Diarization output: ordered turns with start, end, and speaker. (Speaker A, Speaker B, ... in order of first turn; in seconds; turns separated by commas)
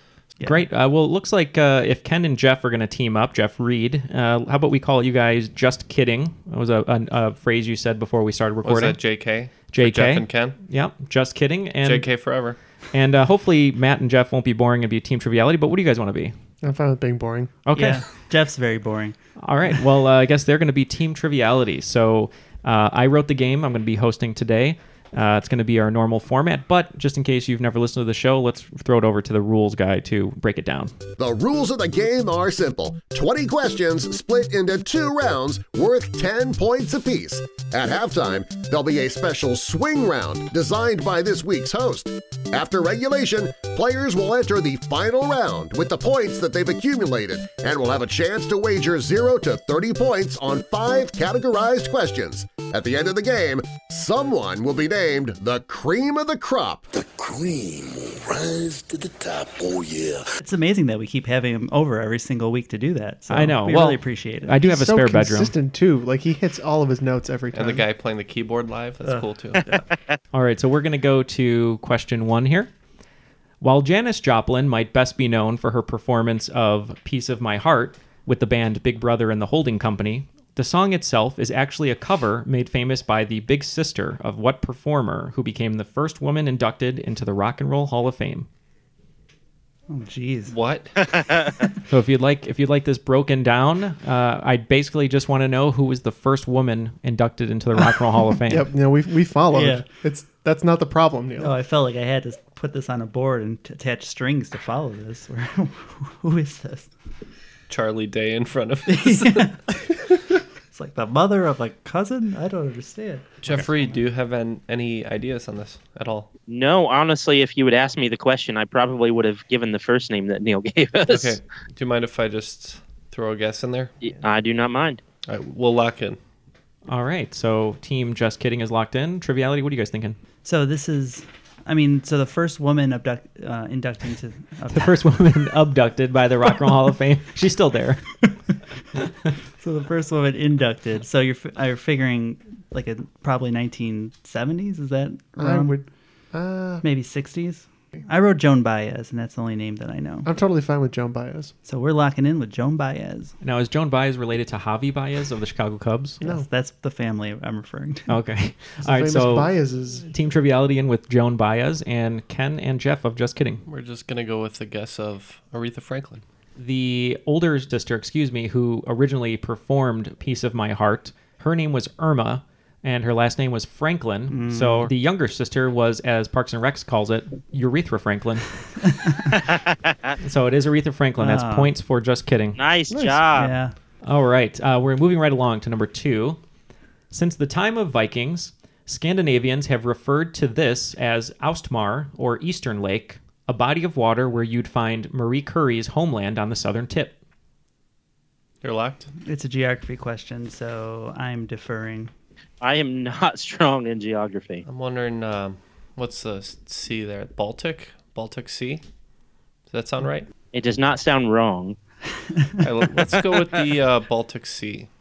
Speaker A: 0.4-0.6, Speaker B: 0.4-16.3, Speaker C: 8.6-10.6, Speaker C: 11.8-12.6, Speaker D: 16.6-17.5, Speaker B: 17.6-18.0, Speaker A: 17.7-19.2, Speaker B: 19.4-30.9, Speaker E: 31.2-56.9, Speaker F: 56.9-60.2, Speaker A: 60.4-64.6, Speaker B: 63.3-65.5, Speaker D: 64.6-67.8, Speaker C: 67.5-69.6, Speaker A: 69.0-69.8, Speaker B: 70.3-72.7, Speaker B: 73.6-88.5, Speaker A: 89.9-90.5, Speaker C: 90.5-90.9, Speaker G: 91.1-91.5, Speaker B: 91.9-98.7, Speaker D: 98.5-101.5, Speaker A: 99.5-99.8, Speaker A: 101.4-106.9, Speaker C: 107.7-109.6, Speaker A: 108.8-109.9, Speaker A: 110.7-114.0, Speaker C: 113.4-116.3, Speaker G: 116.5-121.4, Speaker C: 121.1-123.9, Speaker G: 124.0-125.0, Speaker C: 125.3-126.2, Speaker B: 126.9-130.2, Speaker A: 130.4-135.0, Speaker B: 134.7-138.4, Speaker A: 139.6-145.8, Speaker D: 145.4-146.8, Speaker A: 146.8-150.3, Speaker D: 150.2-151.5, Speaker A: 151.6-153.3, Speaker B: 153.4-156.2, Speaker A: 156.2-158.2, Speaker B: 158.1-163.6, Speaker D: 158.8-160.0, Speaker C: 163.7-166.2, Speaker B: 166.6-178.9, Speaker A: 174.3-174.9, Speaker A: 178.8-179.4, Speaker B: 180.2-182.6, Speaker A: 181.2-181.7, Speaker G: 182.6-183.5, Speaker D: 182.9-183.2, Speaker A: 183.3-183.8, Speaker B: 184.0-186.4, Speaker B: 187.1-197.1, Speaker C: 198.6-199.1, Speaker A: 199.2-202.1, Speaker G: 202.6-204.6, Speaker C: 204.7-208.8, Speaker C: 209.7-210.3, Speaker G: 210.5-211.8, Speaker C: 212.6-214.9